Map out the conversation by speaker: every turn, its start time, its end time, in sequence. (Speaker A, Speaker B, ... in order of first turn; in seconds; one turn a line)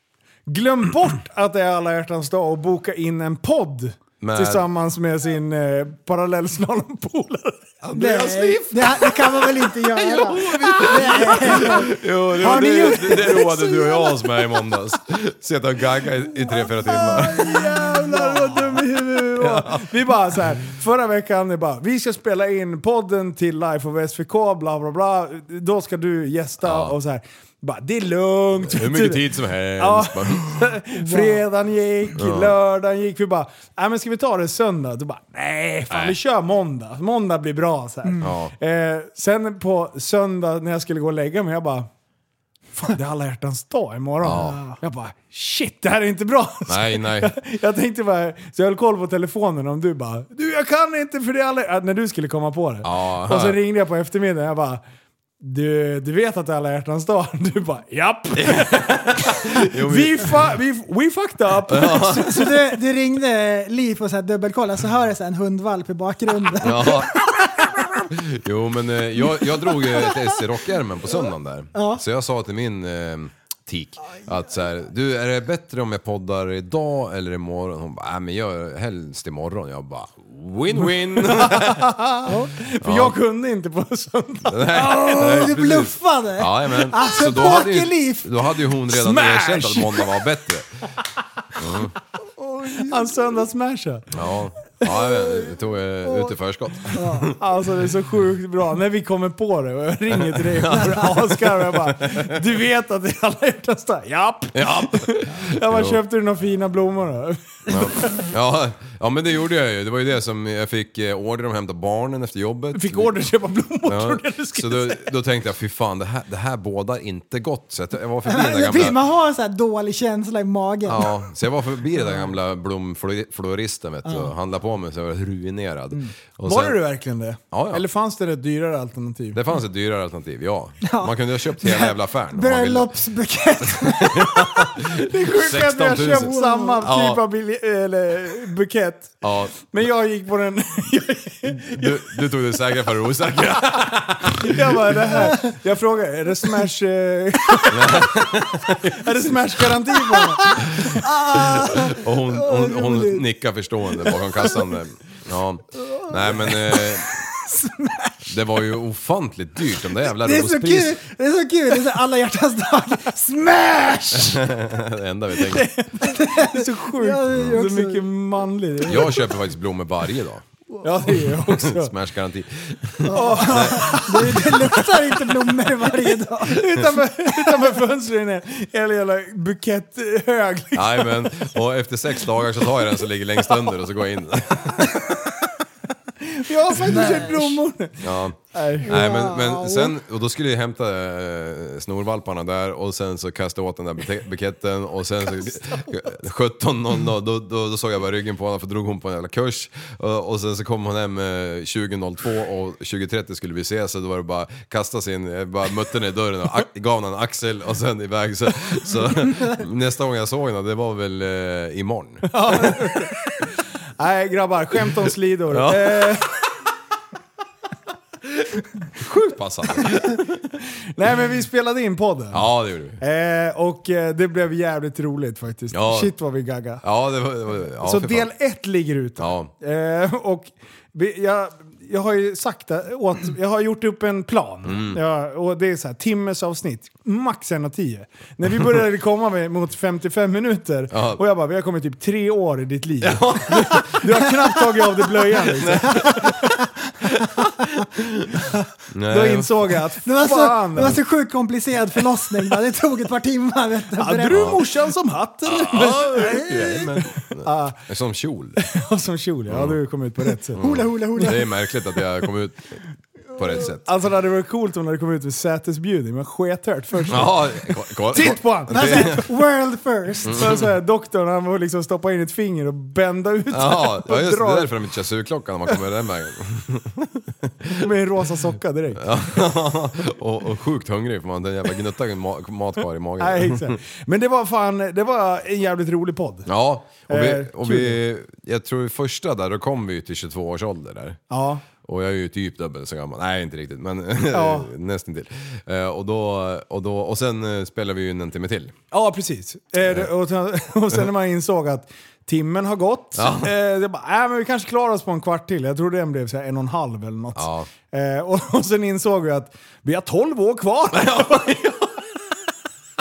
Speaker A: 0.5-7.8
Speaker B: 4.2-4.6
Speaker B: 7.8-19.9
Speaker C: 7.9-14.2
Speaker A: 10.6-11.9
Speaker A: 12.5-13.6
Speaker A: 16.5-41.9
Speaker B: 26.6-26.9
Speaker B: 28.7-30.6
Speaker C: 30.9-31.4
Speaker B: 32.1-32.5
Speaker B: 35.9-36.2
Speaker B: 38.2-38.5
Speaker A: 42.7-54.8
Speaker B: 44.2-44.6
Speaker C: 44.3-44.8
Speaker B: 46.7-47.3
Speaker B: 52.8-53.6
Speaker A: 55.4-62.5
Speaker B: 58.4-60.4
Speaker B: 61.7-62.4
Speaker C: 62.2-67.0
Speaker B: 66.6-67.2
Speaker B: 68.1-81.9
Speaker C: 71.7-72.0
Speaker A: 80.7-85.5
Speaker C: 82.3-82.5
Speaker B: 82.8-83.2
Speaker B: 84.5-90.9
Speaker C: 84.8-88.3
Speaker A: 88.9-90.2
Speaker B: 91.6-92.0
Speaker C: 92.4-93.1
Speaker A: 92.8-94.1
Speaker B: 94.1-97.4
Speaker C: 96.0-96.3
Speaker C: 96.9-97.3
Speaker A: 97.4-108.2
Speaker B: 100.2-102.2
Speaker B: 104.5-106.0
Speaker B: 107.7-113.1
Speaker A: 112.7-115.2
Speaker B: 113.8-119.0
Speaker C: 118.2-121.1
Speaker B: 120.9-126.8
Speaker C: 124.0-124.3
Speaker A: 126.4-129.4
Speaker B: 127.5-127.8
Speaker B: 129.3-132.9
Speaker C: 130.8-134.7
Speaker B: 133.7-137.2
Speaker A: 134.9-142.2
Speaker C: 136.3-136.8
Speaker B: 139.2-139.7
Speaker B: 141.5-145.3
Speaker A: 143.7-150.7
Speaker B: 147.7-149.3
Speaker C: 150.1-153.2
Speaker B: 150.7-157.2
Speaker C: 156.1-158.3
Speaker B: 158.3-161.0
Speaker C: 160.1-164.4
Speaker B: 164.3-165.7
Speaker A: 165.4-169.2
Speaker C: 166.0-168.1
Speaker B: 168.9-170.4
Speaker A: 170.8-171.9
Speaker B: 171.2-174.0
Speaker C: 173.1-176.7
Speaker A: 173.1-174.8
Speaker A: 176.4-181.3
Speaker B: 180.7-185.2
Speaker A: 186.2-189.0
Speaker C: 186.9-187.6
Speaker B: 188.0-212.9
Speaker C: 188.9-189.9
Speaker A: 212.3-213.3
Speaker A: 214.0-216.4
Speaker B: 215.5-216.2
Speaker B: 219.0-220.3
Speaker A: 220.9-222.4
Speaker B: 222.3-223.0
Speaker A: 223.0-226.8
Speaker B: 225.7-226.1
Speaker B: 226.8-228.3
Speaker A: 227.8-246.3
Speaker B: 229.2-229.5
Speaker B: 234.6-235.0
Speaker B: 240.9-241.2
Speaker B: 243.0-244.1
Speaker B: 245.5-246.5
Speaker C: 245.9-246.7
Speaker B: 247.2-248.4
Speaker B: 248.9-249.8
Speaker A: 249.1-251.0
Speaker C: 250.0-254.4
Speaker A: 254.0-257.8
Speaker B: 254.3-254.6
Speaker B: 255.5-258.6
Speaker A: 258.6-260.6
Speaker B: 259.5-259.8
Speaker B: 260.6-262.8
Speaker C: 260.6-261.5
Speaker B: 263.3-263.9
Speaker A: 263.8-269.3
Speaker B: 267.1-269.2
Speaker C: 268.7-270.4
Speaker B: 270.2-270.7
Speaker A: 270.3-274.7
Speaker B: 273.5-277.8
Speaker A: 277.7-279.1
Speaker B: 279.0-283.8
Speaker A: 283.2-286.5
Speaker B: 286.5-291.2
Speaker A: 287.1-288.0
Speaker A: 291.3-291.6
Speaker B: 291.8-298.7
Speaker A: 294.3-294.7
Speaker A: 298.9-311.6
Speaker B: 303.1-303.5
Speaker B: 307.4-307.7
Speaker B: 310.9-311.9